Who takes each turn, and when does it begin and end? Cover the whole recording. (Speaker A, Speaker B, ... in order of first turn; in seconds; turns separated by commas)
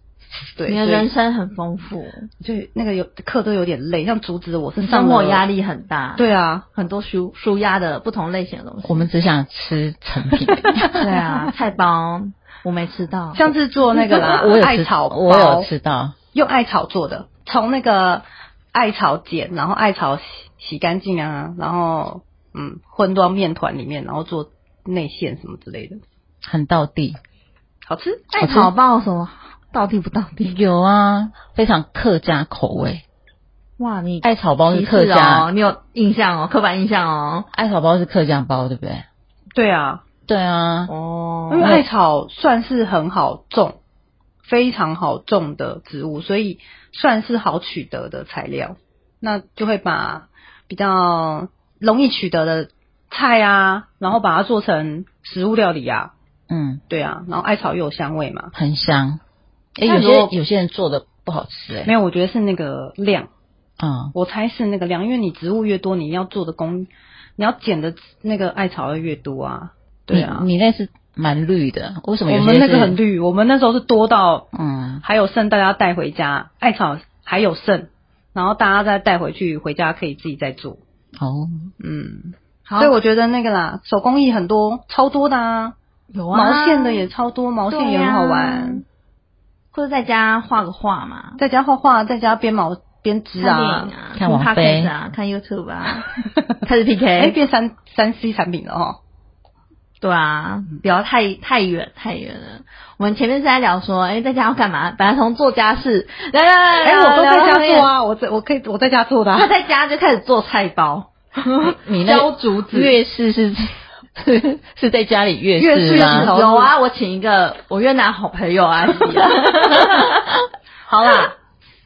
Speaker A: 0.6-1.1, Speaker B: 0.7-2.3, Speaker A: 2.4-5.4, Speaker B: 4.8-9.1, Speaker A: 6.2-6.7, Speaker C: 8.8-11.1, Speaker B: 10.9-13.5, Speaker A: 11.0-11.5, Speaker A: 13.3-15.7, Speaker C: 13.9-16.2, Speaker A: 16.3-26.0, Speaker C: 26.4-27.2, Speaker A: 27.9-28.3, Speaker B: 28.3-30.6, Speaker C: 28.4-28.7, Speaker C: 30.4-33.0, Speaker B: 33.8-37.5, Speaker C: 34.2-35.5, Speaker C: 37.5-39.1, Speaker A: 39.5-40.0, Speaker C: 40.3-40.9, Speaker B: 40.9-41.8, Speaker A: 41.5-43.8, Speaker C: 41.6-41.9, Speaker A: 44.5-56.1, Speaker C: 56.5-56.8, Speaker A: 56.9-58.5, Speaker C: 58.5-59.2, Speaker C: 59.8-61.9, Speaker B: 59.8-60.3, Speaker A: 59.9-60.3, Speaker A: 61.9-63.3, Speaker C: 63.8-64.1, Speaker A: 64.2-70.5, Speaker C: 70.1-73.0, Speaker A: 72.3-74.5, Speaker C: 74.5-75.0, Speaker A: 75.0-80.8, Speaker C: 81.2-81.7, Speaker A: 81.8-85.8, Speaker B: 82.7-83.0, Speaker B: 86.1-87.1, Speaker A: 86.3-88.8, Speaker B: 87.7-88.8, Speaker B: 89.7-91.4, Speaker A: 91.4-93.9, Speaker B: 93.4-96.1, Speaker C: 94.2-94.9, Speaker B: 96.6-97.4, Speaker A: 97.2-99.0, Speaker B: 100.0-107.9, Speaker A: 106.8-109.5, Speaker B: 109.4-113.0, Speaker C: 111.8-116.3, Speaker A: 115.6-116.7, Speaker B: 115.9-120.4, Speaker A: 120.9-121.3